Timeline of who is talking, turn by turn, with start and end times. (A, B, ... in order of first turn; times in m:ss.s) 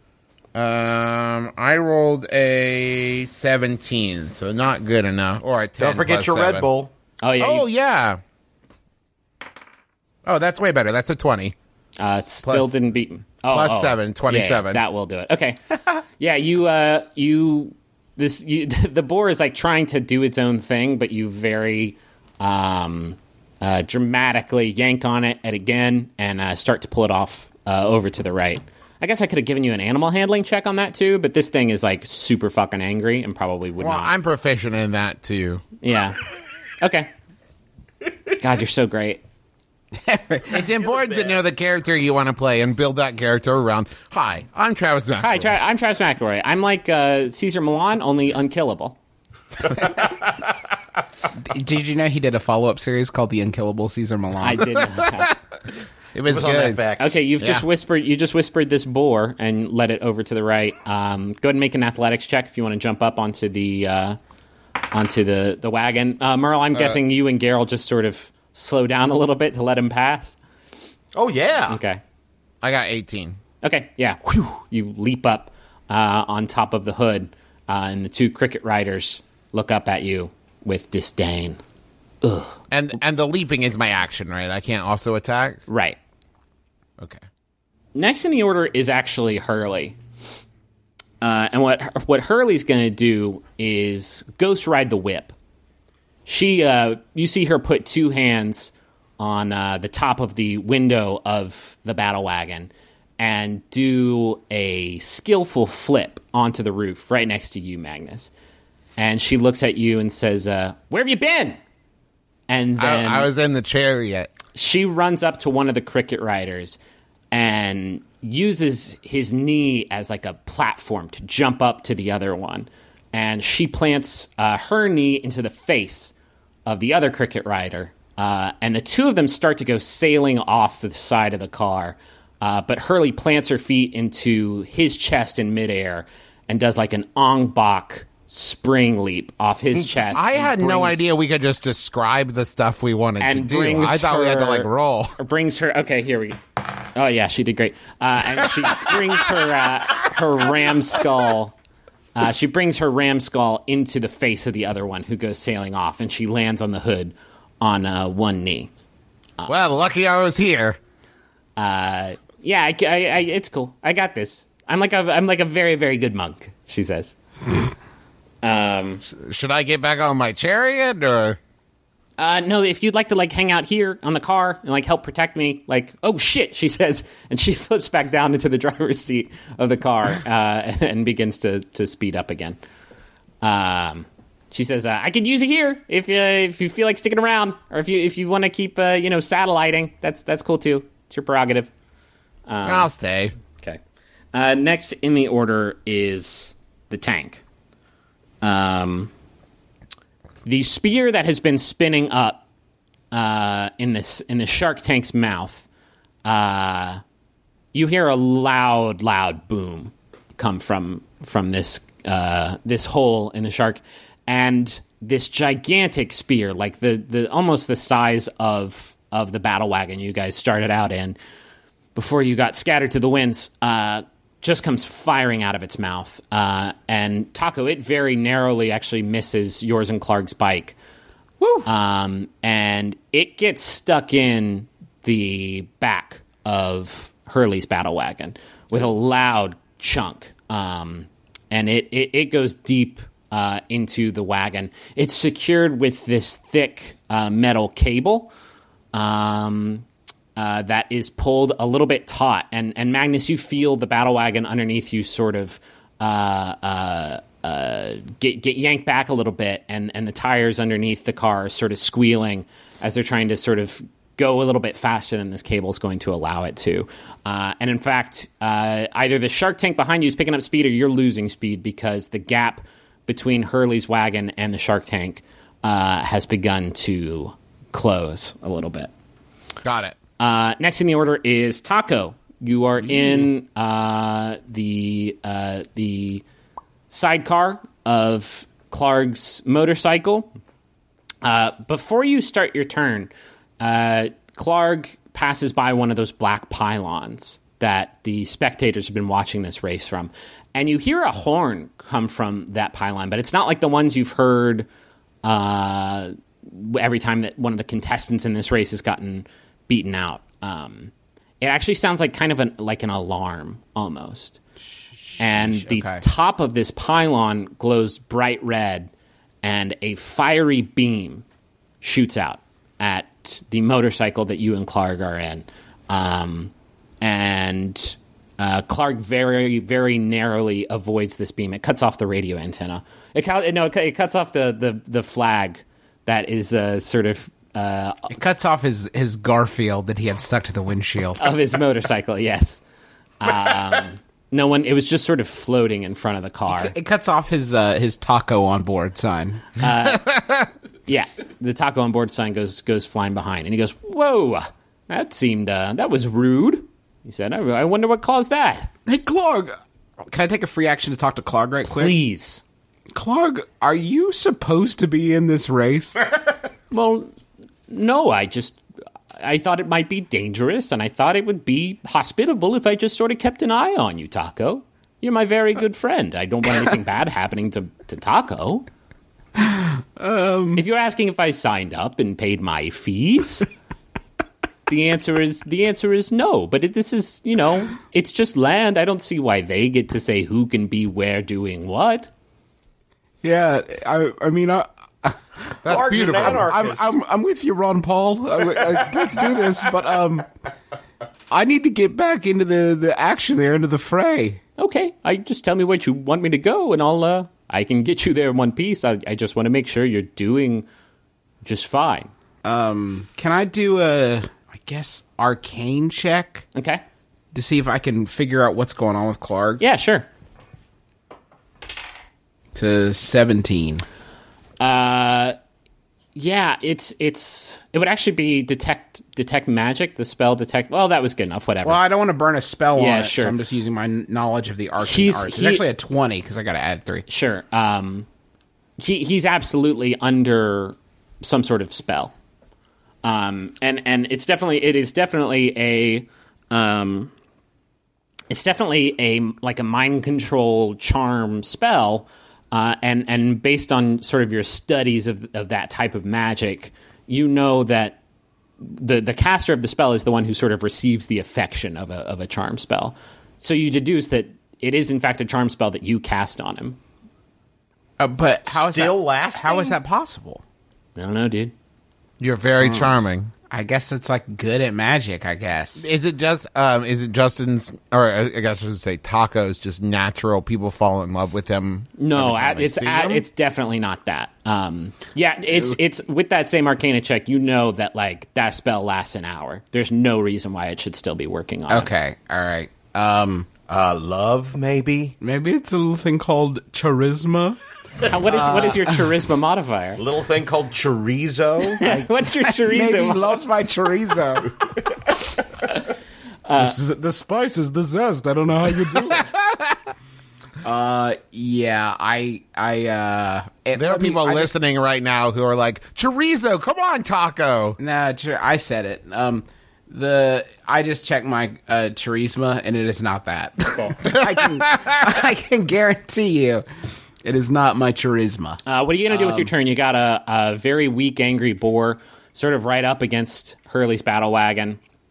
0:00.5-0:06.7 A
0:05.8-0:06.9 B
0:07.2-0:07.7 C
0:07.4-0:08.2 A
0:10.2-0:11.5 A
0:12.0-0:15.6 C
0:12.4-0:12.7 A
0:13.4-0:14.8 A
0:16.2-0:34.1 C
0:33.8-0:35.6 A
0:35.8-0:36.2 C
0:36.8-0:37.1 C
0:38.4-0:39.2 C
0:39.9-0:40.6 D
0:40.5-0:45.6 A
0:40.8-0:41.4 B
0:45.2-0:49.0 C
0:51.4-0:54.9 D
0:54.4-0:55.3 C
0:56.1-0:56.8 A
0:56.2-0:57.2 B
0:57.0-1:04.2 C
0:57.4-0:57.6 A
1:04.9-1:10.4 C
1:06.7-1:07.0 A
1:11.1-1:11.8 B
1:11.7-1:12.0 C
1:12.6-1:13.4 A
1:13.6-1:21.6 C
1:22.2-1:22.6 C
1:22.7-1:25.6 A
1:25.7-1:26.0 C
1:27.9-1:30.0 C
1:31.2-1:35.3 C
1:36.2-1:48.3 C
1:49.0-1:51.6 C
1:52.5-1:53.3 C
1:52.8-1:54.3 A
1:54.5-1:56.8 C
1:57.3-2:06.1 C
2:06.6-2:21.1 C
2:19.8-2:25.1 A
2:23.2-2:26.4 C
2:26.9-2:31.5 C
2:28.5-2:29.6 A
2:32.2-2:38.7 C
2:39.5-2:40.8 A
2:41.6-2:47.1 C
2:48.4-2:49.0 C
2:49.1-2:51.4 A
2:52.2-3:02.6 C
3:03.4-3:11.7 C
3:12.5-3:12.9 C
3:12.6-3:13.3 A
3:14.3-3:17.4 C
3:18.4-3:19.1 C
3:20.4-3:22.4 C
3:23.1-3:25.6 C
3:26.2-3:27.0 C
3:27.7-3:41.2 C
3:41.9-3:50.7 C
3:51.4-3:51.7 D
3:51.6-4:08.3 C
4:08.9-4:38.9 C
4:39.6-4:40.0 A
4:40.2-4:46.2 C
4:46.9-4:50.3 C
4:51.2-5:04.6 C
5:05.2-5:14.4 C
5:14.6-5:16.0 D
5:15.2-5:18.9 C
5:19.4-5:21.2 C
5:21.8-5:38.1 C
5:38.1-5:41.3 D
5:41.2-5:42.6 C
5:43.2-5:46.7 C
5:46.5-5:49.5 D
5:49.6-5:50.1 C
5:49.8-5:50.5 A
5:50.9-5:58.7 C
5:58.8-5:59.6 D
6:00.1-6:01.9 D
6:01.6-6:02.4 C
6:02.9-6:06.0 D
6:06.7-6:07.1 C
6:07.7-6:08.6 C
6:09.2-6:18.6 C
6:19.4-6:20.6 D
6:20.6-6:23.5 C
6:24.7-6:32.1 C
6:33.2-6:40.3 D
6:35.6-6:36.4 A
6:35.7-6:37.0 B
6:41.3-6:44.4 D
6:44.6-6:50.6 C
6:51.4-6:52.1 C
6:52.4-6:56.4 D
6:56.5-6:56.8 C
6:57.3-6:59.6 D
6:59.6-7:00.1 C
7:02.5-7:03.8 D
7:04.6-7:05.4 C
7:06.1-7:11.8 C
7:11.6-7:17.0 D
7:12.7-7:13.4 C
7:14.8-7:15.6 C
7:17.1-7:18.0 C
7:18.8-7:22.1 C
7:23.0-7:27.1 C
7:28.3-7:38.0 C
7:38.6-7:46.8 C
7:48.0-7:50.4 D
7:48.5-7:49.8 B
7:51.0-7:51.5 C
7:52.2-7:53.3 A
7:52.6-7:52.9 D
7:53.5-7:55.8 D
7:55.8-8:03.2 A
8:02.0-8:11.9 C
8:11.7-8:13.5 D
8:13.7-8:15.2 B
8:15.2-8:17.6 D
8:18.0-8:20.0 C
8:18.3-8:18.7 B
8:18.3-8:18.9 D
8:20.0-8:21.8 B
8:21.8-8:23.4 C
8:21.8-8:24.5 D
8:26.4-8:26.8 C
8:26.6-8:29.3 D
8:29.0-8:29.8 A
8:30.6-8:34.5 D
8:33.7-8:37.8 A
8:37.8-8:49.5 D
8:44.0-8:45.0 A
8:48.6-8:54.8 C